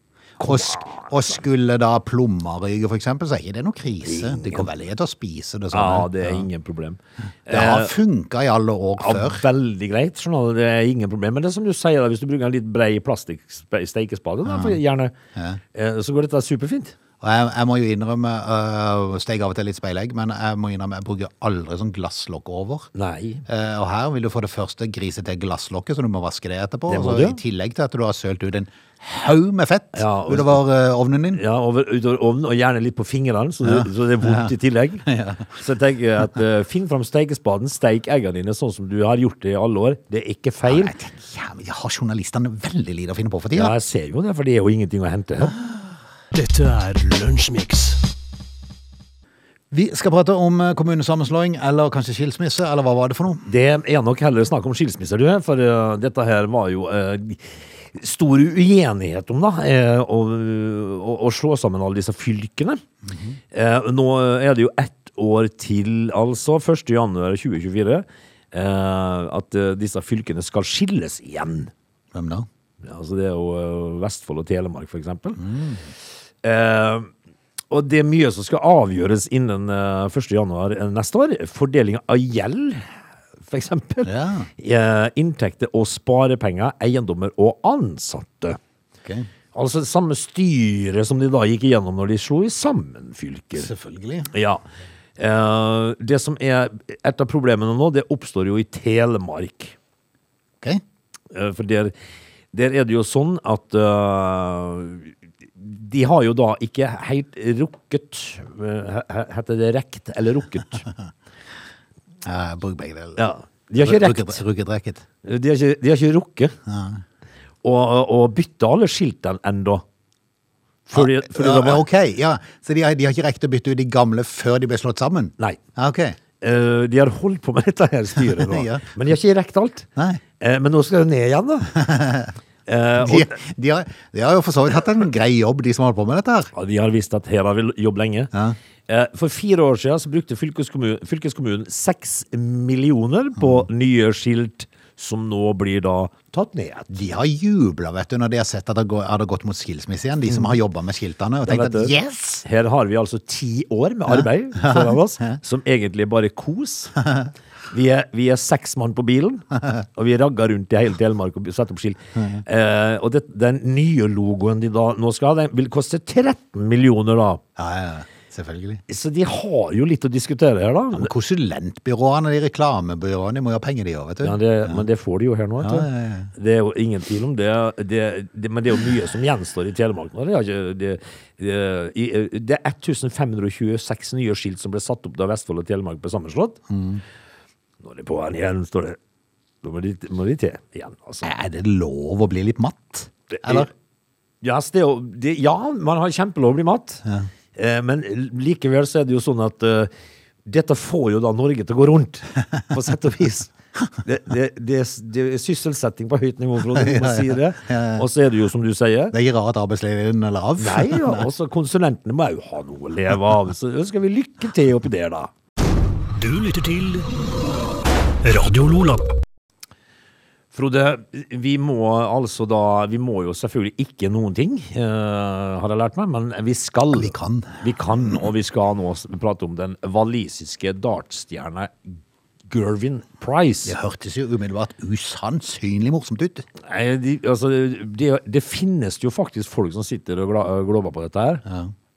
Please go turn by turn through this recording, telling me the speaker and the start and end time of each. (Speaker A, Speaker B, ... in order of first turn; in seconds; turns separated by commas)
Speaker A: 0.4-6.5, Speaker B: 0.4-1.1, Speaker B: 4.0-4.7, Speaker B: 5.7-7.9, Speaker A: 7.5-9.4, Speaker B: 9.0-15.2, Speaker A: 14.4-14.8, Speaker A: 15.4-15.6, Speaker B: 15.7-16.9, Speaker A: 17.2-22.9, Speaker B: 22.9-23.4, Speaker A: 23.5-31.4, Speaker B: 26.9-27.4, Speaker B: 29.9-30.6, Speaker B: 31.3-40.9, Speaker A: 33.6-34.5, Speaker A: 35.0-35.5, Speaker A: 40.6-43.8, Speaker B: 43.5-45.6, Speaker C: 46.3-48.0, Speaker A: 49.7-53.5, Speaker B: 53.5-62.8, Speaker A: 63.1-63.4, Speaker B: 63.5-71.7, Speaker A: 72.1-72.5, Speaker B: 72.8-75.4, Speaker A: 75.4-75.9, Speaker B: 76.4-77.1, Speaker B: 77.7-82.9, Speaker B: 83.5-88.6, Speaker A: 84.0-84.5, Speaker B: 89.5-93.7, Speaker A: 93.6-94.3, Speaker B: 94.3-94.6, Speaker B: 95.2-99.8, Speaker B: 101.3-101.9, Speaker B: 102.5-110.8, Speaker A: 112.2-113.2, Speaker B: 113.2-114.4, Speaker A: 113.8-115.0, Speaker B: 115.2-116.6, Speaker A: 116.7-117.0, Speaker B: 117.6-119.8, Speaker B: 120.9-121.8, Speaker A: 120.9-126.2, Speaker B: 126.4-129.9, Speaker A: 128.2-128.9, Speaker B: 130.4-131.7, Speaker A: 131.7-132.3, Speaker B: 132.7-133.3, Speaker A: 133.0-136.5, Speaker B: 136.5-138.3, Speaker A: 138.3-138.6, Speaker B: 138.9-147.0, Speaker A: 143.4-143.6, Speaker A: 146.9-152.4, Speaker B: 150.3-150.6, Speaker B: 151.5-156.9, Speaker A: 154.6-155.4, Speaker B: 157.7-167.4, Speaker A: 162.2-162.4, Speaker A: 167.6-168.8, Speaker B: 168.9-171.1, Speaker A: 170.9-174.8, Speaker B: 174.2-186.6, Speaker A: 175.6-176.3, Speaker A: 186.7-187.0, Speaker B: 187.8-189.0, Speaker B: 189.6-191.3, Speaker A: 191.2-193.7, Speaker B: 193.3-193.7, Speaker B: 194.4-197.0, Speaker B: 197.6-199.9, Speaker B: 200.5-203.5, Speaker B: 204.0-209.2, Speaker A: 206.7-208.1, Speaker A: 209.1-211.3, Speaker B: 210.6-215.3, Speaker C: 216.2-217.1, Speaker C: 218.2-219.1, Speaker B: 220.5-231.7, Speaker A: 226.9-228.2, Speaker B: 232.5-233.8, Speaker A: 233.7-236.5, Speaker B: 236.6-241.4, Speaker A: 241.5-241.7